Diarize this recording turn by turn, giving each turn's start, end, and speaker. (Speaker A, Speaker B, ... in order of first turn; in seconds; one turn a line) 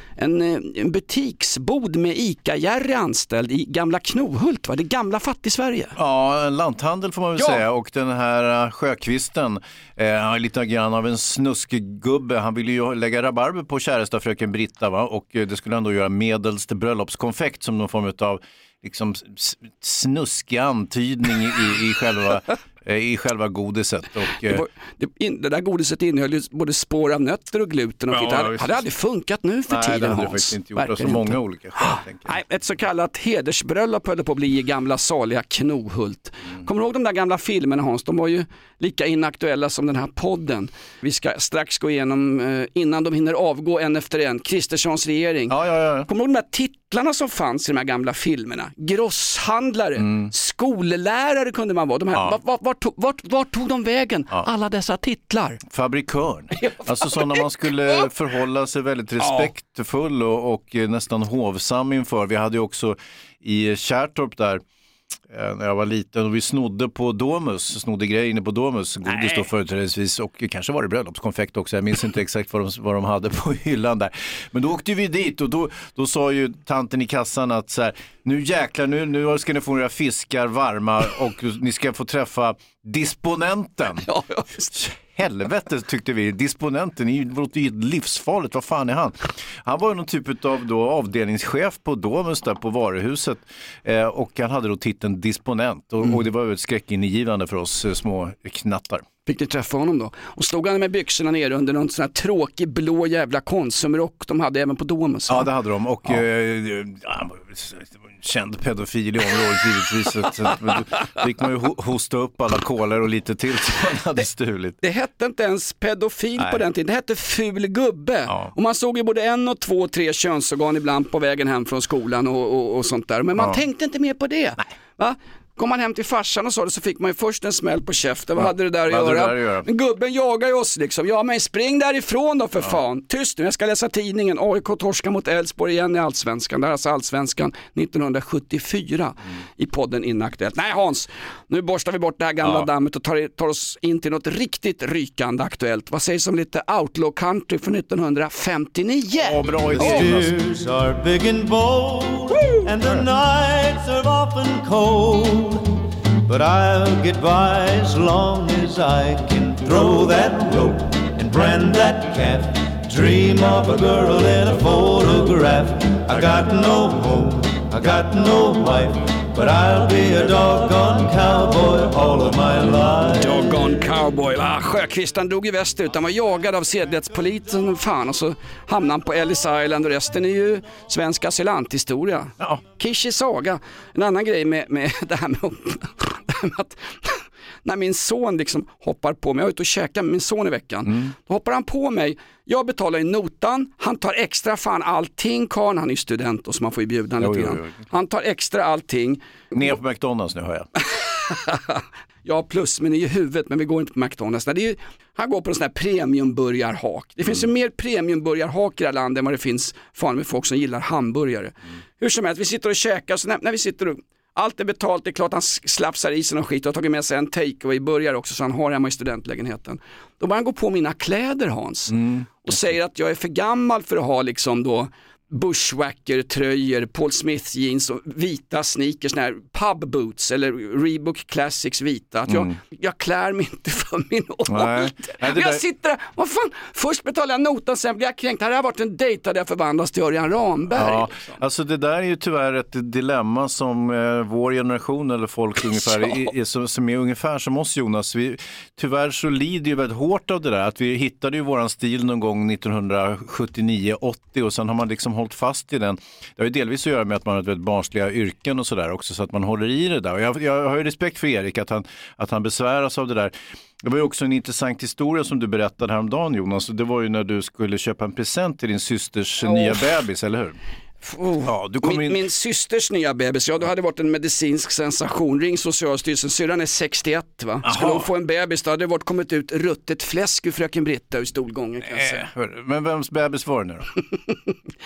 Speaker A: 0.1-5.9
Speaker B: 6.0-24.6
Speaker A: 7.3-7.6
Speaker A: 24.4-45.6
Speaker B: 28.1-28.9
Speaker B: 29.7-32.4
Speaker B: 45.5-46.1
Speaker A: 46.1-55.6
Speaker B: 50.0-50.3
Speaker B: 52.1-52.4
Speaker B: 55.6-64.6
Speaker A: 56.5-58.1
Speaker A: 59.2-59.5
Speaker B: 65.3-84.1
Speaker A: 69.0-69.5
Speaker A: 84.0-84.7
Speaker B: 84.7-99.0
Speaker A: 99.3-105.5
Speaker B: 105.3-114.8
Speaker A: 114.8-150.1
Speaker B: 116.4-116.7
Speaker B: 118.3-118.5
Speaker B: 123.3-123.6
Speaker B: 128.3-129.7
Speaker B: 142.4-142.7
Speaker B: 149.1-150.4
Speaker C: 149.7-155.7
Speaker C: 156.2-173.6
Speaker A: 173.1-199.2
Speaker B: 182.4-182.7
Speaker B: 190.8-191.2
Speaker B: 197.2-197.9
Speaker B: 199.5-200.7
Speaker A: 201.0-241.4
Speaker B: 207.2-207.5
Speaker B: 221.9-222.7
Speaker B: 232.3-232.6
Speaker B: 234.5-235.7
Speaker B: 240.7-270.6
Speaker A: 245.7-246.3
Speaker A: 269.4-269.8
Speaker A: 271.0-282.2
Speaker B: 271.4-272.3
Speaker B: 277.6-278.1
Speaker B: 281.8-283.9